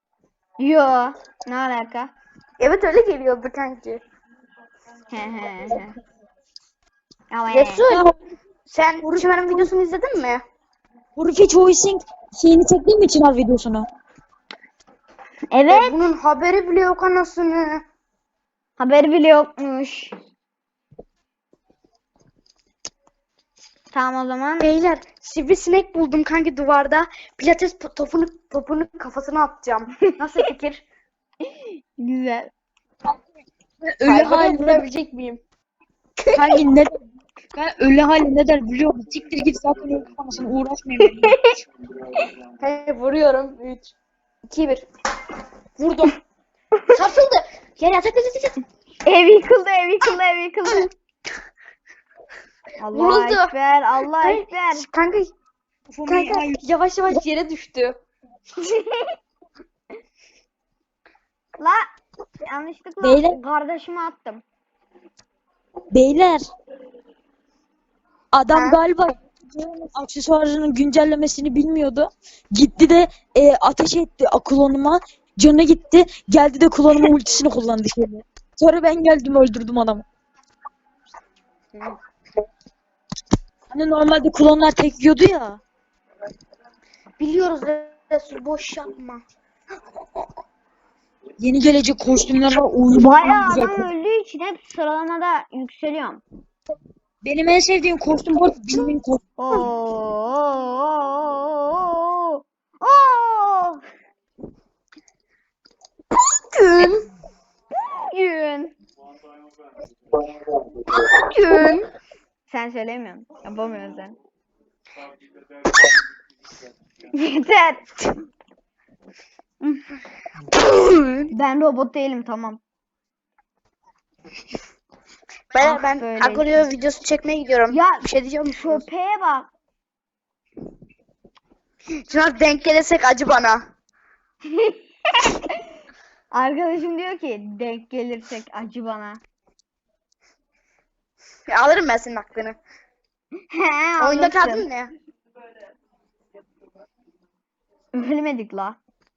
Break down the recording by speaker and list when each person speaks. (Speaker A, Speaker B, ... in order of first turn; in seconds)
Speaker A: 0.6-2.1, 5.1-6.0, 7.3-7.9, 15.5-16.0, 18.8-20.1, 23.9-24.7, 31.4-32.5, 41.0-41.6, 49.0-50.9, 52.8-54.9, 58.6-59.2, 61.6-61.8, 62.4-64.4, 92.9-96.2, 99.4-103.8, 107.7-108.7, 112.5-114.2, 117.1-118.2, 121.3-122.6, 125.6-126.6, 127.7-129.5, 134.5-135.6, 136.3-139.2, 143.5-144.7, 147.9-148.8
Speaker B: 2.6-4.0, 7.5-8.0, 8.7-10.4, 15.7-17.8, 24.6-30.8, 34.0-35.4, 36.2-36.6, 42.6-43.9, 44.5-44.9, 45.8-46.2, 46.9-48.6, 52.9-53.5, 54.1-55.3, 56.0-58.0, 68.5-68.8, 87.2-89.2, 106.3-107.1, 110.9-111.9, 120.5-121.3, 125.5-128.8, 132.1-133.6, 141.5-142.6, 144.0-144.9
Speaker C: 9.0-9.7, 11.2-13.8, 33.8-34.8, 36.3-37.0, 37.5-41.3, 55.9-56.6, 63.0-63.4, 65.9-66.5, 68.3-80.0, 83.7-85.6, 91.4-93.9, 97.2-99.2